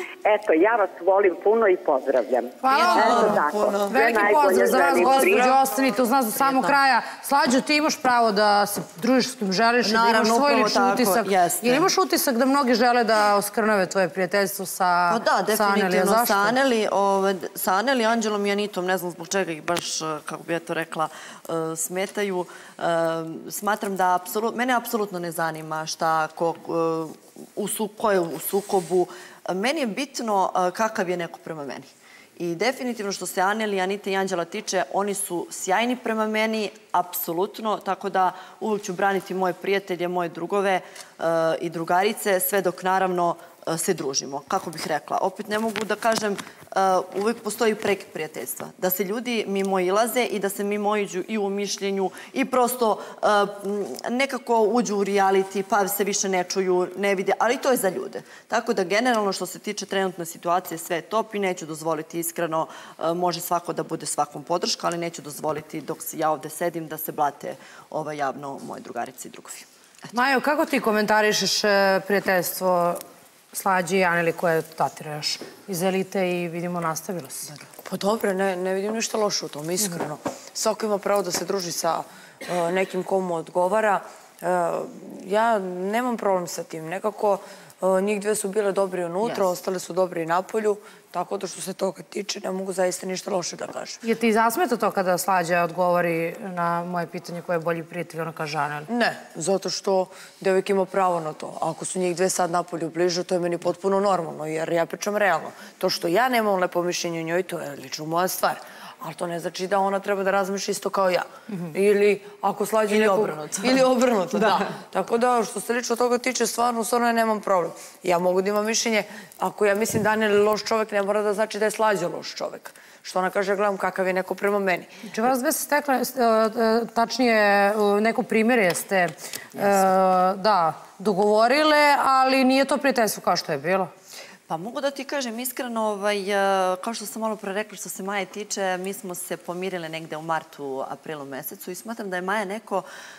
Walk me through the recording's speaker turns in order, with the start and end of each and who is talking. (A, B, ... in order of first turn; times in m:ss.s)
0:00.2-0:05.6 A
0:02.6-0:16.6 B
0:02.9-0:04.3 C
0:05.0-0:05.4 C
0:06.4-0:06.8 D
0:09.8-0:11.9 D
0:15.1-1:09.7 D
1:10.1-1:17.5 B
1:17.8-1:34.0 C
1:29.2-1:29.5 D
1:34.0-1:38.9 B
1:38.9-2:04.9 C
1:52.9-1:54.7 D
2:05.1-2:13.9 B
2:14.5-2:22.9 D